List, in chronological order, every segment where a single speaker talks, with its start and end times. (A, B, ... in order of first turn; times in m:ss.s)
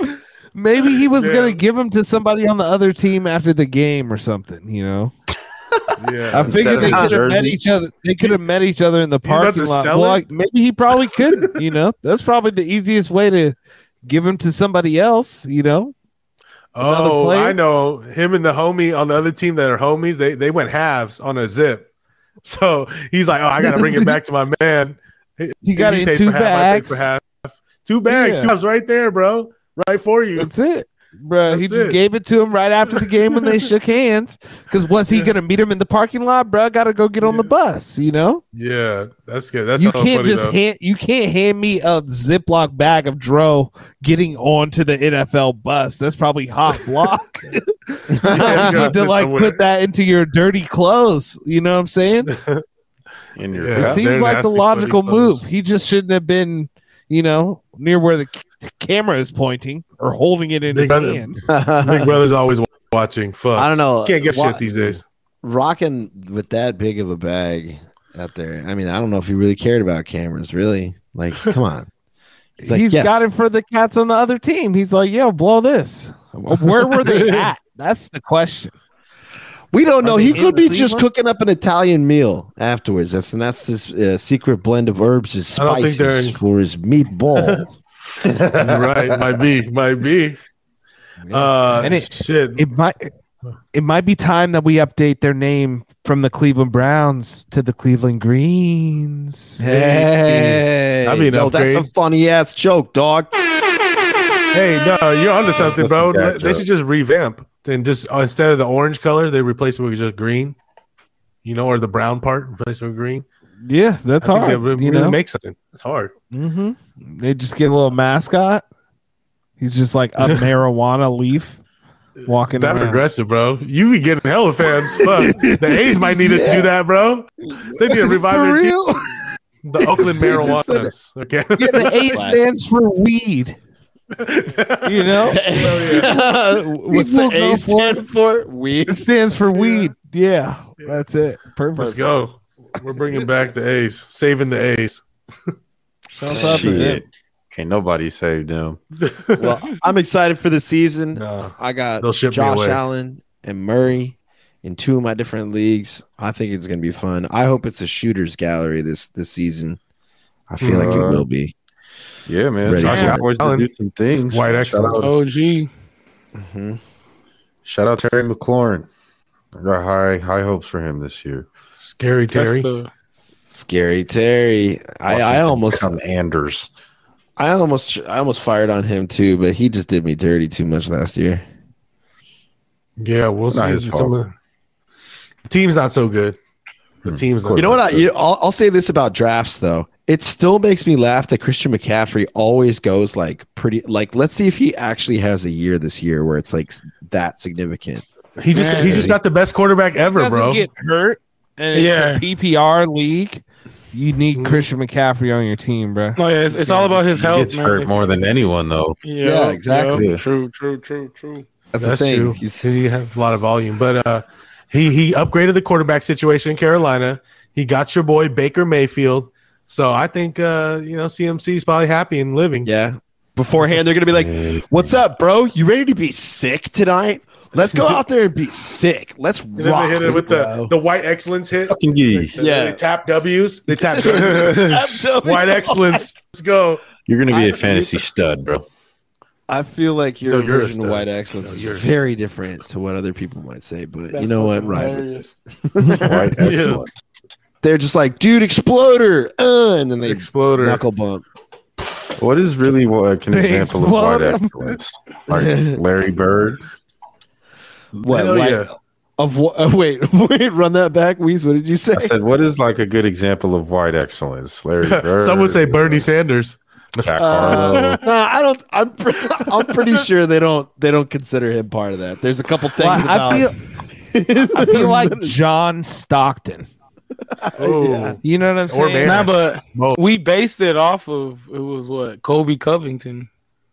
0:00.6-0:05.1 A
0:01.1-0:01.6 B
0:06.0-0:07.1 B
0:06.3-0:15.9 A
0:06.4-0:07.6 C
0:09.2-0:10.2 B
0:16.8-0:21.9 B
0:16.8-0:17.6 A
0:22.4-0:30.5 B
0:23.6-0:24.1 A
0:25.6-0:27.1 A
0:28.1-0:28.5 A
0:30.4-0:38.4 A
0:31.5-0:32.0 B
0:33.0-0:33.6 B
0:35.1-0:35.3 B
0:37.2-0:37.5 B
0:38.5-0:40.6 B
0:39.8-0:52.3 A
0:48.2-0:48.8 D
0:48.2-0:49.6 B
0:52.3-0:52.6 B
0:53.4-0:54.0 C
0:53.6-0:55.4 B
0:53.7-1:01.4 A
1:00.7-1:01.3 B
1:01.5-1:02.2 D
1:01.8-1:05.0 B
1:03.6-1:11.9 D
1:12.6-1:18.8 A
1:12.6-1:13.2 D
1:17.1-1:17.4 B
1:19.7-1:27.7 D
1:20.0-1:21.1 A
1:25.6-1:26.4 B
1:27.3-1:27.7 B
1:28.4-1:28.9 D
1:28.5-1:30.4 B
1:31.3-1:32.6 B
1:31.8-1:33.1 A
1:33.7-1:39.6 A
1:39.6-1:43.4 D
1:39.6-1:41.9 B
1:44.5-1:50.6 B
1:45.6-1:46.6 C
1:51.4-1:53.2 B
1:53.6-1:55.2 A
1:54.2-1:56.1 B
1:56.3-1:58.6 A
1:59.6-2:01.6 A
2:02.3-2:03.0 A
2:02.5-2:08.8 B
2:05.0-2:06.7 A
2:07.5-2:09.2 A
2:09.6-2:12.2 B
2:09.8-2:10.9 A
2:11.6-2:13.6 A
2:12.1-2:12.4 D
2:14.1-2:16.2 B
2:14.8-2:15.4 A
2:15.3-2:19.1 D
2:16.9-2:18.0 A
2:18.9-2:22.0 A
2:19.6-2:19.9 B
2:21.8-2:25.0 B
2:26.2-2:27.0 A
2:26.3-2:26.9 D
2:26.3-2:28.8 C
2:29.0-2:29.6 B
2:29.4-2:39.8 D
2:31.2-2:32.8 B
2:40.5-2:41.5 D
2:40.6-2:41.2 B
2:40.7-2:41.2 C
2:42.3-2:45.1 C
2:42.6-2:43.3 D
2:42.8-2:43.7 B
2:44.3-2:45.1 B
2:45.0-2:45.7 E
2:46.4-2:46.8 D
2:47.6-2:48.9 C
2:49.6-2:51.5 C
2:51.8-2:52.7 B
2:52.3-2:52.9 E
2:53.5-2:56.0 D
2:55.1-2:56.7 C
2:57.4-3:01.4 D
3:03.0-3:04.3 B
3:03.5-3:04.2 C
3:05.5-3:06.4 B
3:07.0-3:07.8 B
3:07.0-3:08.1 C
3:07.6-3:18.0 D
3:18.4-3:20.6 B
3:18.5-3:19.1 E
3:18.6-3:19.2 D
3:20.1-3:26.2 A
3:21.7-3:22.2 E
3:24.3-3:24.7 B
3:26.2-3:28.3 E
3:26.7-3:27.0 B
3:27.2-3:29.0 C
3:29.0-3:31.5 E
3:29.2-3:30.1 D
3:29.9-3:30.2 C
3:31.7-3:32.7 D
3:31.8-3:42.7 B
3:42.6-3:50.7 D
3:44.1-3:45.0 C
3:47.7-3:48.0 B
3:49.6-3:56.8 B
3:51.7-3:52.4 C
3:52.4-3:52.8 D
3:53.7-3:56.1 D
3:57.1-3:58.7 C
3:57.3-3:58.0 D
3:59.5-4:05.1 D
4:00.2-4:01.9 B
4:04.1-4:05.3 E
4:05.6-4:06.3 D
4:05.9-4:07.0 C
4:06.4-4:06.8 B
4:07.6-4:11.2 D
4:10.0-4:10.8 B
4:12.2-4:16.6 C
4:13.3-4:14.6 A
4:15.3-4:15.8 D
4:18.0-4:18.7 B
4:18.0-4:22.1 D
4:21.9-4:26.1 C
4:24.8-4:28.0 B
4:27.0-4:28.0 C
4:27.2-4:33.6 D
4:29.6-4:30.0 B
4:32.8-4:33.6 A
4:34.1-4:35.3 D
4:34.6-4:36.7 A
4:37.4-4:38.2 D
4:37.6-4:40.0 B
4:38.2-4:39.3 A
4:39.0-4:43.3 E